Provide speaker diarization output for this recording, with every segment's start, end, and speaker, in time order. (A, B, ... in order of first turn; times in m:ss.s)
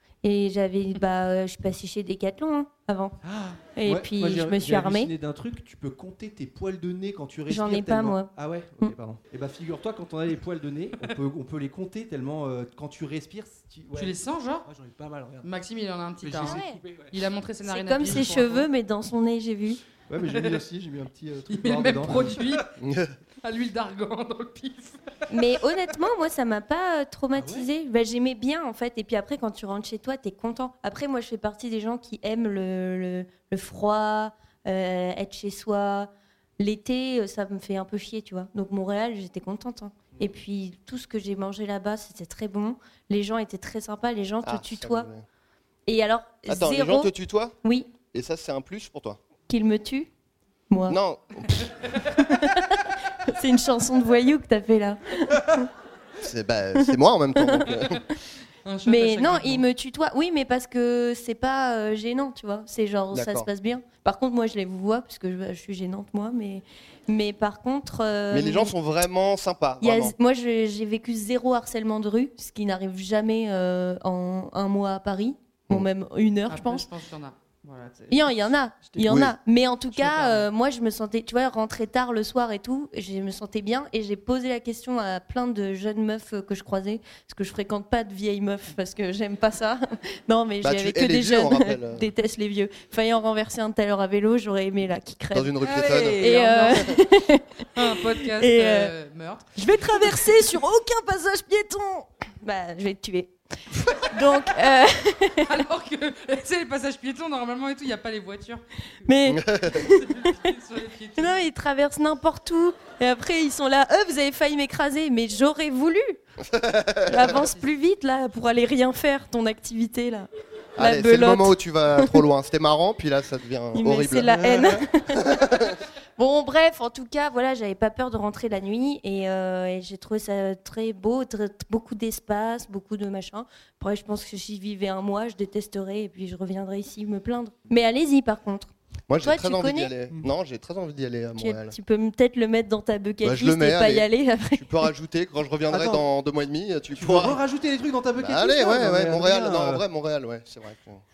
0:00.2-0:03.2 A
0:03.2-0:15.5 B
0:03.8-0:05.1 A
0:07.5-0:08.3 A
0:13.9-0:14.7 C
0:15.4-0:18.7 C
0:16.2-0:17.1 B
0:16.4-0:16.8 A
0:17.6-0:19.8 A
0:20.1-0:22.6 B
0:20.3-0:20.6 C
0:21.5-0:22.7 C
0:22.8-0:23.1 D
0:23.4-0:25.5 C
0:25.3-0:45.1 A
0:27.3-0:27.7 B
0:44.4-0:45.3 D
0:45.9-0:47.1 A
0:46.5-0:47.6 D
0:47.6-0:47.9 A
0:48.1-0:49.2 D
0:49.5-0:50.1 A
0:50.7-0:51.0 A
0:50.9-0:51.7 D
0:52.0-0:55.7 A
0:56.2-0:58.0 D
0:57.4-0:57.8 A
0:58.6-0:59.6 C
0:58.9-1:08.7 A
1:03.1-1:03.5 D
1:08.3-1:10.2 D
1:09.8-1:16.9 A
1:16.5-1:18.3 C
1:18.1-1:35.6 A
1:19.0-1:19.4 D
1:19.9-1:20.4 C
1:30.6-1:32.1 D
1:35.3-1:36.9 D
1:35.6-1:37.0 C
1:36.2-1:38.9 A
1:37.8-1:40.1 C
1:39.6-1:45.6 A
1:45.5-1:48.6 C
1:49.0-1:50.5 A
1:49.3-1:49.8 D
1:49.7-1:51.4 C
1:51.2-1:56.2 A
1:56.4-1:57.3 D
1:57.1-2:02.2 A
1:57.2-1:57.7 C
2:00.8-2:04.5 D
2:03.7-2:05.4 A
2:04.3-2:04.8 B
2:05.1-2:05.8 D
2:06.2-2:19.9 A
2:19.1-2:21.8 D
2:21.4-2:24.9 A
2:23.2-2:27.4 D
2:25.7-2:26.0 B
2:26.9-2:29.8 B
2:28.2-2:31.0 D